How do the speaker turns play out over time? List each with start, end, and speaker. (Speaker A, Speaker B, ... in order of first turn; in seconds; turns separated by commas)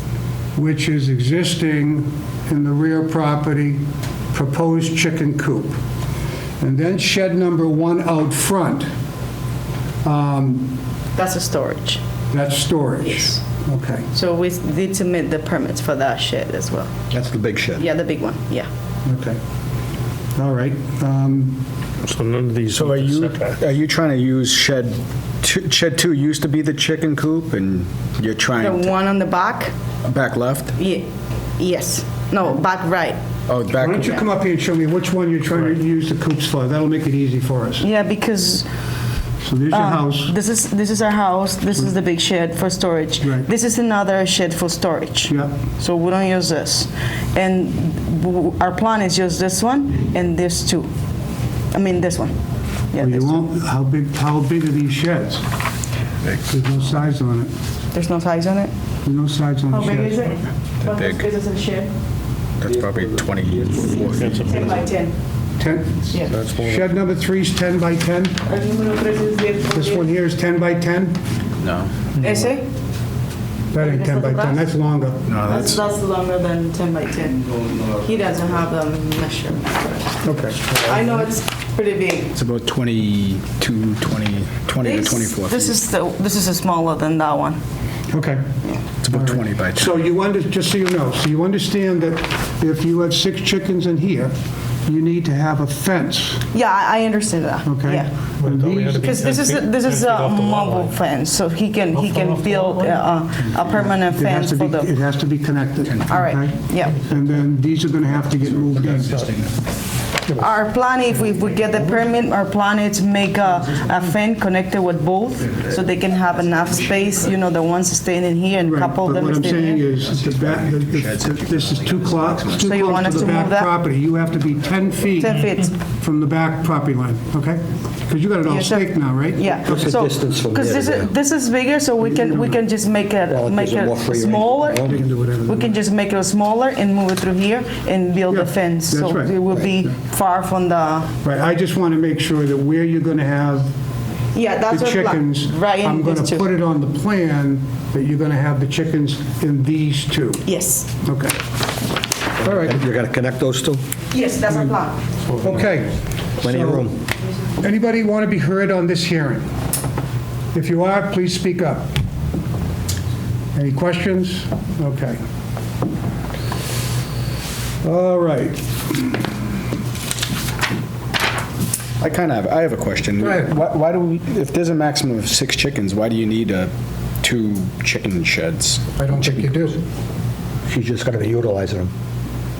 Speaker A: 0.6-5.8, Speaker A: 6.6-8.9, Speaker A: 10.0-10.8, Speaker B: 11.1-12.0, Speaker A: 12.3-14.1, Speaker B: 13.1-13.4, Speaker B: 14.1-16.9, Speaker C: 17.1-17.8, Speaker B: 17.7-18.7, Speaker A: 19.0-19.4, Speaker A: 20.4-21.6, Speaker D: 22.0-23.5, Speaker E: 22.7-28.9, Speaker B: 28.6-29.7, Speaker E: 30.0-30.7, Speaker B: 30.8-31.1, Speaker B: 31.6-33.2, Speaker E: 33.5-34.1, Speaker A: 33.7-37.9, Speaker B: 37.8-38.6, Speaker A: 39.4-40.3, Speaker B: 39.7-50.9, Speaker A: 43.2-43.5, Speaker A: 45.3-45.5, Speaker B: 51.7-52.4, Speaker B: 52.9-53.5, Speaker A: 53.0-55.4, Speaker A: 56.5-57.5, Speaker B: 57.9-58.7, Speaker A: 59.0-60.3, Speaker B: 59.7-61.9, Speaker E: 60.8-61.2, Speaker E: 62.6-64.4, Speaker D: 64.1-64.7, Speaker B: 64.3-65.2, Speaker A: 65.6-68.4, Speaker C: 66.3-66.8, Speaker B: 68.5-70.1, Speaker A: 69.7-71.2, Speaker E: 71.6-72.4, Speaker B: 72.2-72.7, Speaker A: 73.7-75.2, Speaker B: 73.8-74.7, Speaker E: 75.2-75.8, Speaker B: 75.4-80.0, Speaker A: 80.2-81.2, Speaker B: 80.7-82.3, Speaker E: 82.3-85.8, Speaker B: 84.8-87.6, Speaker A: 88.1-88.4, Speaker E: 89.0-89.9, Speaker A: 89.1-94.3, Speaker A: 94.8-96.4, Speaker B: 96.5-98.1, Speaker A: 97.6-99.1, Speaker D: 98.4-100.9, Speaker B: 99.0-104.9, Speaker D: 102.0-102.9, Speaker A: 103.7-109.2, Speaker B: 106.1-107.0, Speaker E: 108.3-109.5, Speaker B: 110.3-119.8, Speaker A: 118.7-129.8, Speaker E: 120.0-123.2, Speaker B: 122.6-123.7, Speaker B: 125.2-125.7, Speaker B: 128.4-134.9, Speaker C: 129.7-131.1, Speaker A: 132.0-132.6, Speaker C: 133.3-135.0, Speaker A: 134.8-135.7, Speaker B: 135.4-141.1, Speaker A: 138.3-139.9, Speaker A: 141.2-143.7, Speaker B: 144.3-146.5, Speaker A: 144.7-150.4, Speaker B: 150.4-150.9, Speaker A: 151.0-151.3, Speaker C: 152.4-153.8, Speaker A: 152.4-152.8, Speaker B: 154.1-155.0, Speaker A: 155.4-156.9, Speaker C: 156.4-157.0, Speaker A: 157.6-159.4, Speaker A: 160.5-161.9, Speaker A: 163.5-165.2, Speaker A: 167.8-169.3, Speaker E: 172.0-179.0, Speaker A: 173.2-173.5, Speaker A: 179.0-179.8, Speaker C: 180.7-181.9